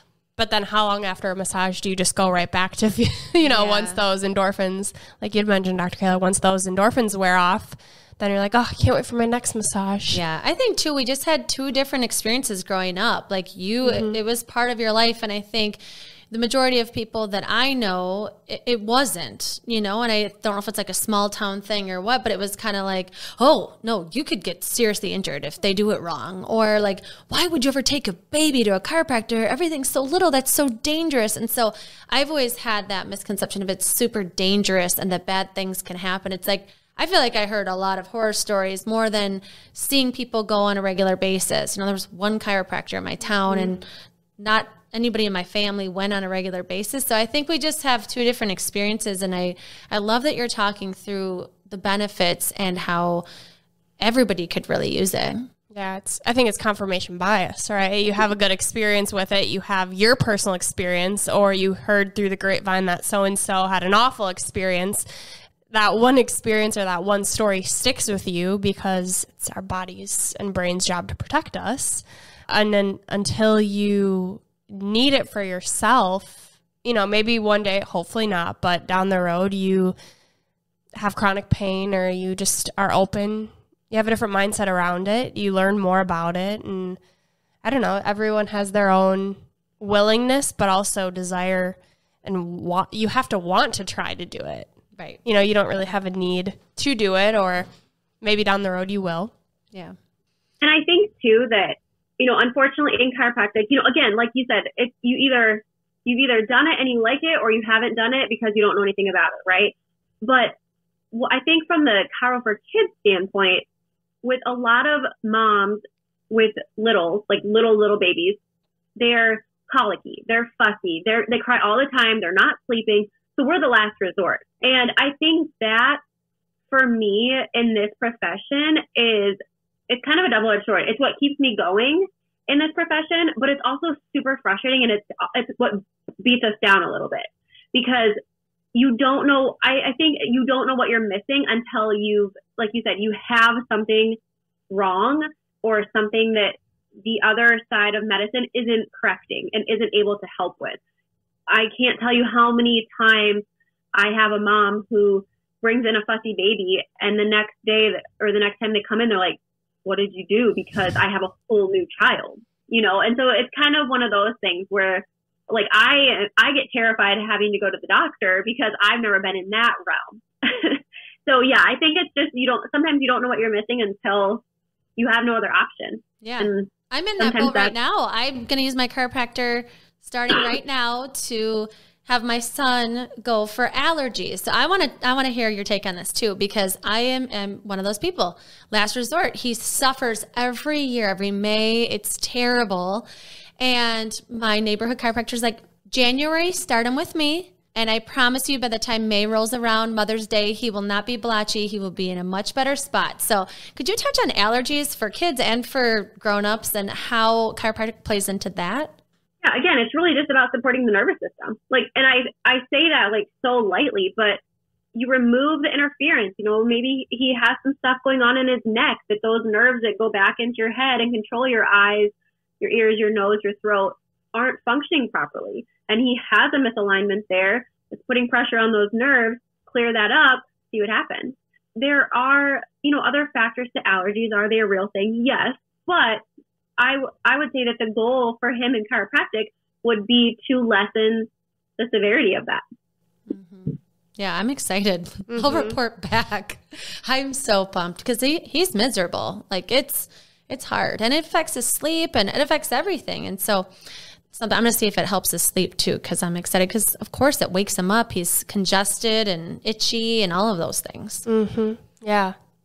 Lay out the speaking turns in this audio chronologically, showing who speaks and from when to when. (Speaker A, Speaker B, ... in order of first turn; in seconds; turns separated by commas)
Speaker A: 0.4-10.2, Speaker B: 3.4-4.0, Speaker B: 10.1-43.8, Speaker A: 13.8-14.2, Speaker A: 43.5-43.7, Speaker B: 44.4-53.2, Speaker B: 54.0-55.5, Speaker A: 55.7-65.0, Speaker A: 65.7-79.9, Speaker A: 81.0-87.0, Speaker A: 87.6-94.7, Speaker A: 95.2-97.7, Speaker A: 98.2-99.3, Speaker C: 100.6-110.5, Speaker C: 111.1-113.6, Speaker C: 114.2-118.4, Speaker C: 119.0-126.0, Speaker C: 126.7-138.2, Speaker C: 138.7-144.2, Speaker C: 144.7-150.8, Speaker C: 151.5-174.4, Speaker C: 175.0-177.7, Speaker B: 176.2-193.1, Speaker B: 193.6-208.9, Speaker C: 209.4-214.4, Speaker C: 214.9-236.2, Speaker C: 236.8-242.6, Speaker B: 243.3-253.7, Speaker A: 245.3-245.8, Speaker B: 254.3-261.2, Speaker A: 261.2-262.4